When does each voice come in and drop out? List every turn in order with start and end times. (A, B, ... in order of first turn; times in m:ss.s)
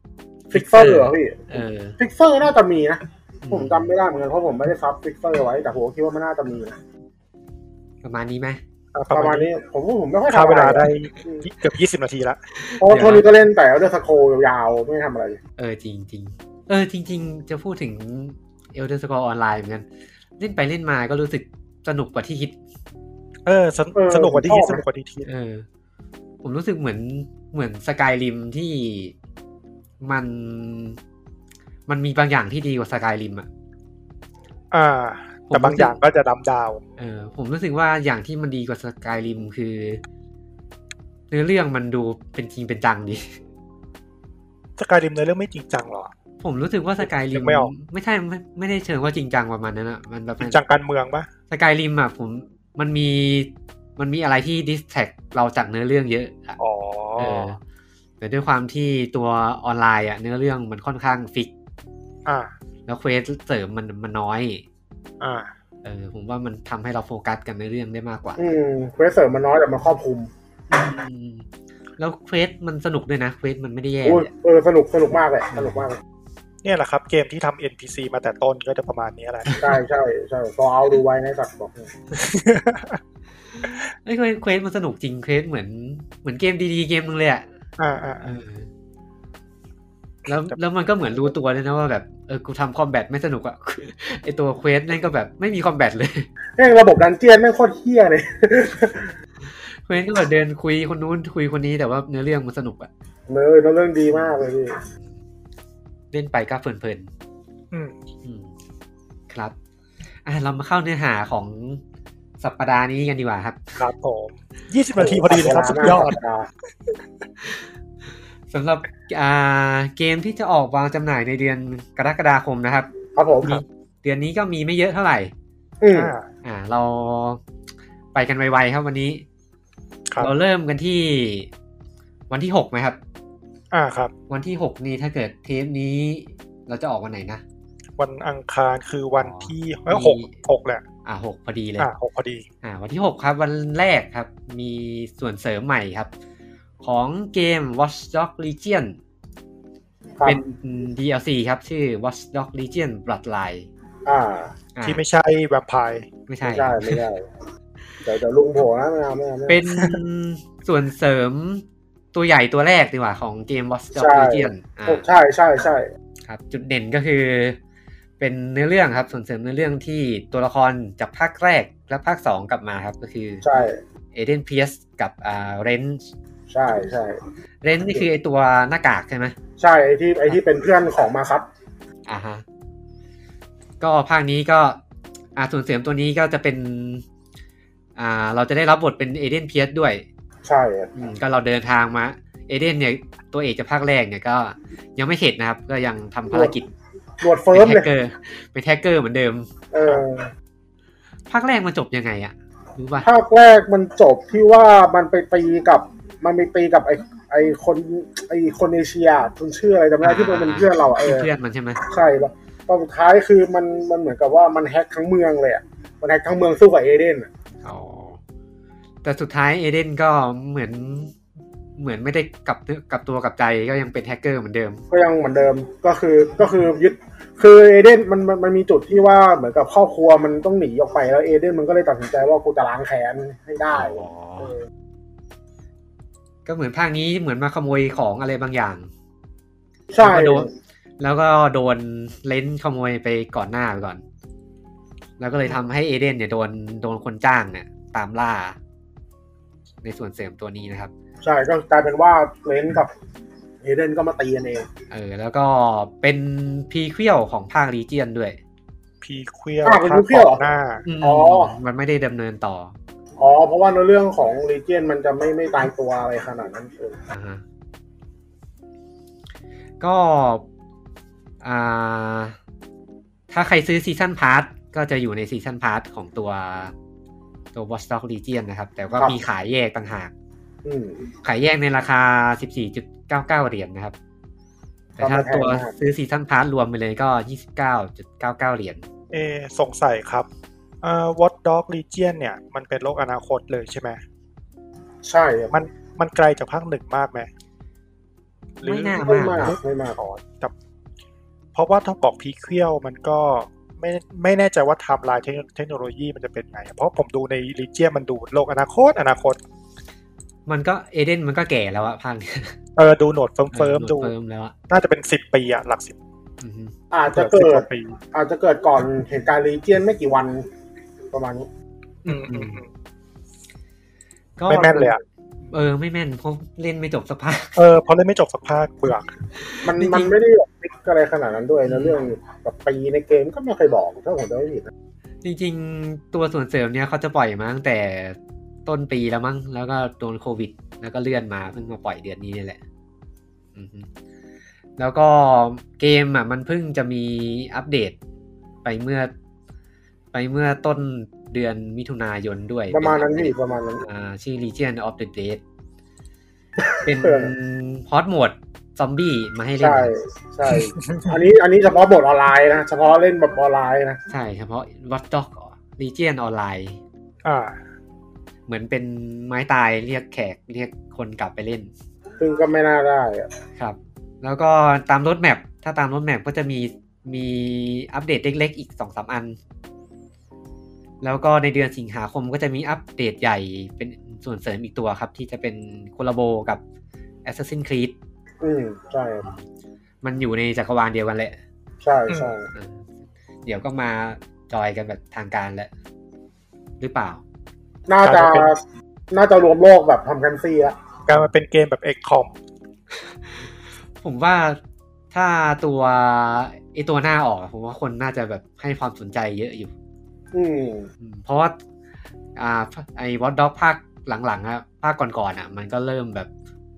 0:00.5-0:02.0 A
0:00.5-0:06.8 B
0:03.4-0:03.9 A
0:08.0-0:08.6 A
0:08.9-0:09.5 C
0:09.1-0:11.5 B
0:10.3-0:12.4 C
0:12.6-0:13.3 A
0:12.8-0:15.4 B
0:15.6-0:19.9 A
0:20.4-0:22.6 A
0:23.5-0:25.3 C
0:24.0-0:24.8 B
0:25.2-0:25.7 A
0:26.4-0:29.2 A
0:30.0-0:31.0 A
0:31.9-0:33.5 A
0:34.7-0:36.8 C
0:35.5-0:36.0 A
0:37.0-0:40.0 A
0:41.3-0:43.4 A
0:44.8-0:46.1 C
0:46.4-0:50.6 A
0:47.0-0:47.7 C
0:50.4-0:51.3 C
0:51.5-0:56.6 A
0:56.6-0:57.6 C
0:57.2-0:57.6 A
0:58.2-1:01.5 A
1:02.3-1:02.5 C
1:02.9-1:04.6 A
1:05.2-1:05.5 C
1:05.8-1:08.4 A
1:08.4-1:10.3 B
1:10.7-1:11.5 A
1:12.0-1:14.3 A
1:14.0-1:16.0 B
1:15.5-1:15.9 A
1:16.6-1:19.6 C
1:19.6-1:21.9 B
1:22.2-1:23.0 C
1:23.6-1:27.5 A
1:27.8-1:28.4 C
1:28.2-1:28.7 A
1:30.3-1:36.3 A
1:36.6-1:39.2 B
1:39.8-1:42.9 A
1:43.3-1:44.8 B
1:46.1-1:47.1 A
1:47.7-1:48.0 C
1:48.2-1:48.5 A
1:49.3-1:49.6 A
1:50.2-1:51.8 A
1:52.4-1:53.8 A
1:53.8-1:56.2 C
1:55.0-1:56.5 B
1:58.5-2:05.3 A
2:03.2-2:03.6 B
2:05.8-2:06.1 B
2:05.9-2:06.3 C
2:06.4-2:07.4 A
2:08.1-2:09.2 A
2:10.2-2:11.5 A
2:12.3-2:13.0 A
2:13.7-2:14.1 C
2:14.3-2:17.4 A
2:18.0-2:20.8 C
2:19.2-2:20.4 A
2:21.0-2:21.9 A
2:21.8-2:22.5 C
2:22.6-2:26.1 A
2:26.8-2:29.0 A
2:30.2-2:33.7 A
2:34.1-2:34.5 B
2:34.8-2:35.0 A
2:34.8-2:36.1 C
2:36.3-2:37.0 A
2:36.4-2:37.3 B
2:38.0-2:39.6 B
2:39.5-2:45.1 A
2:44.0-2:45.9 B
2:46.3-2:47.6 A
2:48.2-2:53.5 A
2:53.4-2:53.8 B
2:54.1-2:56.1 A
2:56.5-2:57.2 B
2:57.6-2:59.4 A
2:59.6-3:01.5 B
3:02.1-3:02.4 A
3:03.8-3:04.8 A
3:05.4-3:07.0 A
3:08.0-3:10.0 A
3:10.4-3:10.9 B
3:11.0-3:16.7 A
3:17.2-3:17.9 B
3:17.5-3:19.5 A
3:19.7-3:20.3 B
3:21.3-3:23.1 A
3:23.0-3:31.3 B
3:30.0-3:31.8 A
3:31.8-3:37.3 B
3:37.6-3:38.2 A
3:39.0-3:41.2 A
3:41.8-3:44.8 A
3:44.9-3:54.5 B
3:53.7-3:54.6 A
3:56.5-3:58.9 A
3:59.9-4:00.5 B
4:00.0-4:00.5 A
4:01.0-4:04.0 A
4:05.2-4:08.6 A
4:09.8-4:10.9 A
4:11.2-4:12.9 B
4:13.6-4:14.7 B
4:14.9-4:18.4 A
4:19.0-4:20.8 C
4:19.6-4:20.4 B
4:20.8-4:22.8 A
4:21.0-4:21.6 B
4:23.2-4:27.0 B
4:27.1-4:27.4 A
4:29.8-4:30.5 A
4:31.4-4:32.4 A
4:33.3-4:36.7 A
4:37.5-4:40.1 A
4:40.6-4:41.1 B
4:41.2-4:44.0 A
4:45.0-4:48.9 A
4:45.0-4:45.7 B
4:49.1-4:50.3 C
4:50.8-4:54.0 C
4:55.0-4:55.6 B
4:55.5-4:57.3 C
4:58.6-5:00.5 C
4:58.6-4:59.6 A
4:59.0-5:00.0 B
5:01.6-5:09.4 C
5:10.5-5:12.6 A
5:12.8-5:14.1 C
5:13.5-5:14.6 A
5:14.7-5:16.0 C
5:16.4-5:16.8 A
5:16.9-5:20.5 B
5:17.1-5:18.0 C
5:21.1-5:21.5 B
5:22.0-5:22.6 A
5:22.1-5:22.7 C
5:24.4-5:25.0 A
5:24.5-5:25.0 C
5:25.5-5:27.6 A
5:27.6-5:29.1 C
5:29.5-5:30.1 A
5:29.6-5:34.7 B
5:31.7-5:32.0 A
5:35.2-5:42.6 A
5:43.6-5:43.9 A
5:44.8-5:48.0 A
5:48.6-5:49.1 A
5:50.1-5:55.4 A
5:52.7-5:53.8 B
5:56.6-5:57.3 B
5:56.8-5:59.9 A
5:59.6-6:04.0 B
6:04.1-6:06.8 A
6:07.2-6:07.6 C
6:08.5-6:11.7 A
6:12.2-6:13.3 B
6:13.6-6:19.4 A
6:21.0-6:26.6 A
6:27.2-6:28.0 A
6:28.4-6:29.3 B
6:30.0-6:31.4 A
6:31.8-6:32.5 B
6:32.1-6:32.3 C
6:32.5-6:32.9 A
6:33.5-6:35.7 A
6:36.8-6:37.2 A
6:37.9-6:40.8 B
6:38.0-6:38.5 C
6:41.1-6:42.3 C
6:44.0-6:44.6 A
6:45.1-6:49.7 A
6:50.3-6:50.9 B
6:51.0-6:51.6 A
6:52.4-6:56.3 A